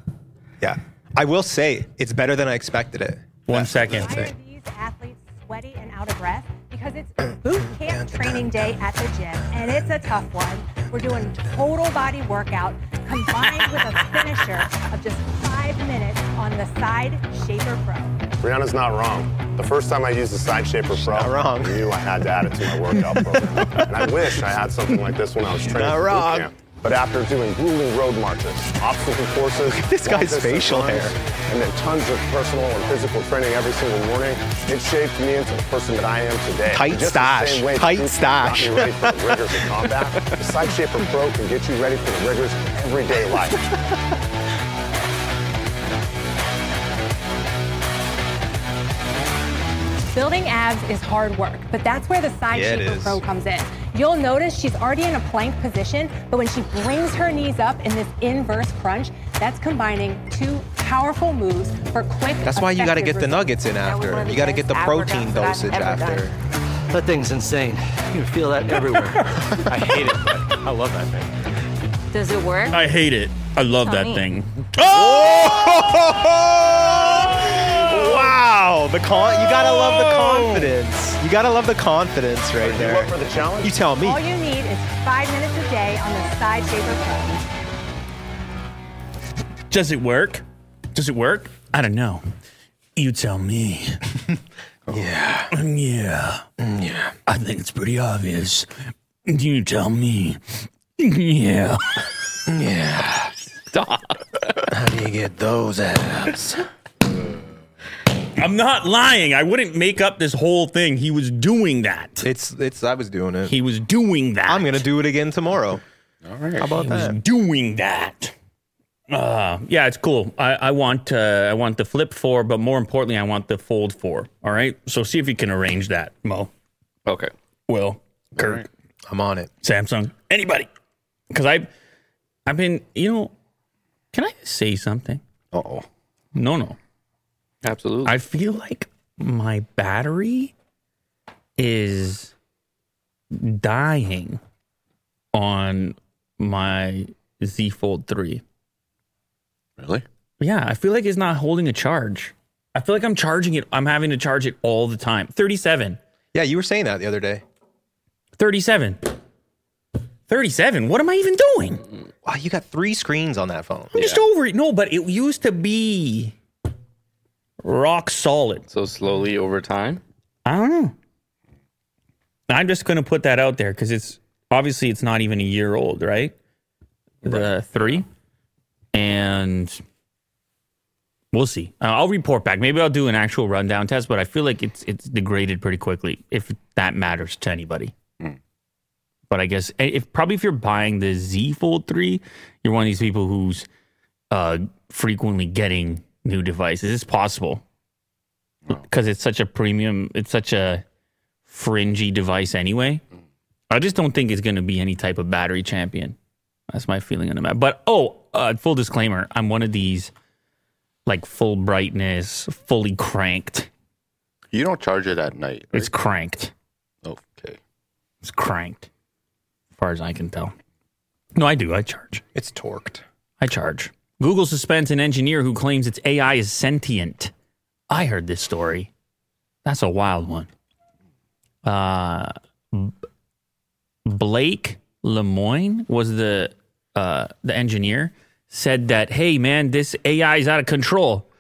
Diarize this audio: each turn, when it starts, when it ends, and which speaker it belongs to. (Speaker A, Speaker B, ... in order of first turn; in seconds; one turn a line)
Speaker A: 0.6-4.3
Speaker B: 3.5-4.2
Speaker C: 3.8-18.2
Speaker D: 18.4-43.7
Speaker A: 21.0-21.9
Speaker A: 22.9-26.5
Speaker A: 29.6-31.2
Speaker A: 36.7-39.7
Speaker C: 50.1-63.6
Speaker A: 52.5-53.2
Speaker A: 62.4-66.4
Speaker E: 63.9-66.2
Speaker F: 66.9-70.6
Speaker A: 69.7-71.2
Speaker E: 72.1-72.7
Speaker B: 72.7-75.8
Speaker E: 73.8-74.2
Speaker A: 74.8-84.3
Speaker B: 77.5-77.8
Speaker D: 77.8-78.3
Speaker B: 79.2-80.7
Speaker D: 82.5-83.9
Speaker C: 84.0-87.4
Speaker B: 89.7-92.2
Speaker B: 93.0-94.0
Speaker A: 94.9-95.5
Speaker B: 95.5-96.5
Speaker A: 96.6-97.2
Speaker B: 97.3-98.7
Speaker B: 99.3-102.0
Speaker A: 102.5-103.3
Speaker G: 103.7-104.6
Speaker A: 104.7-106.7
Speaker B: 108.4-112.3
Speaker A: 112.2-113.6
Speaker B: 113.5-114.8
Speaker A: 114.5-115.8
Speaker H: 116.2-116.7
Speaker A: 116.6-117.2
Speaker B: 116.7-118.3
Speaker B: 119.1-126.5
Speaker G: 127.1-127.3
Speaker B: 127.7-128.7
Speaker H: 128.3-128.7
Speaker A: 129.1-129.5
Speaker B: 129.6-130.7
Speaker B: 131.3-131.7
Speaker B: 132.5-133.3
Speaker B: 134.1-135.2
Speaker H: 135.5-135.9
Speaker B: 136.3-136.8
Speaker G: 137.6-138.1
Speaker B: 138.1-140.5
Speaker B: 141.6-142.3
Speaker B: 143.3-144.4
Speaker B: 145.3-148.4
Speaker H: 149.8-150.1
Speaker B: 150.4-156.0
Speaker A: 156.3-157.4
Speaker B: 158.4-159.2
Speaker B: 160.3-161.8
Speaker A: 162.2-164.1
Speaker B: 163.9-166.3
Speaker B: 167.6-168.7
Speaker G: 168.7-170.0
Speaker B: 170.4-170.9
Speaker B: 172.5-176.3
Speaker B: 177.2-178.1
Speaker B: 178.9-179.8
Speaker B: 181.3-187.9
Speaker B: 189.3-193.7
Speaker B: 194.3-197.6
Speaker B: 198.7-200.8
Speaker B: 201.5-203.0
Speaker B: 203.7-206.2
Speaker B: 206.7-210.1
Speaker B: 211.1-213.7
Speaker H: 214.5-215.9
Speaker B: 215.7-216.5
Speaker H: 217.0-217.6
Speaker B: 218.2-218.9
Speaker B: 219.8-220.5
Speaker B: 221.3-222.2
Speaker A: 222.3-223.0
Speaker B: 223.4-227.3
Speaker B: 227.9-228.9
Speaker B: 229.7-230.5
Speaker B: 231.6-232.9
Speaker B: 234.1-241.3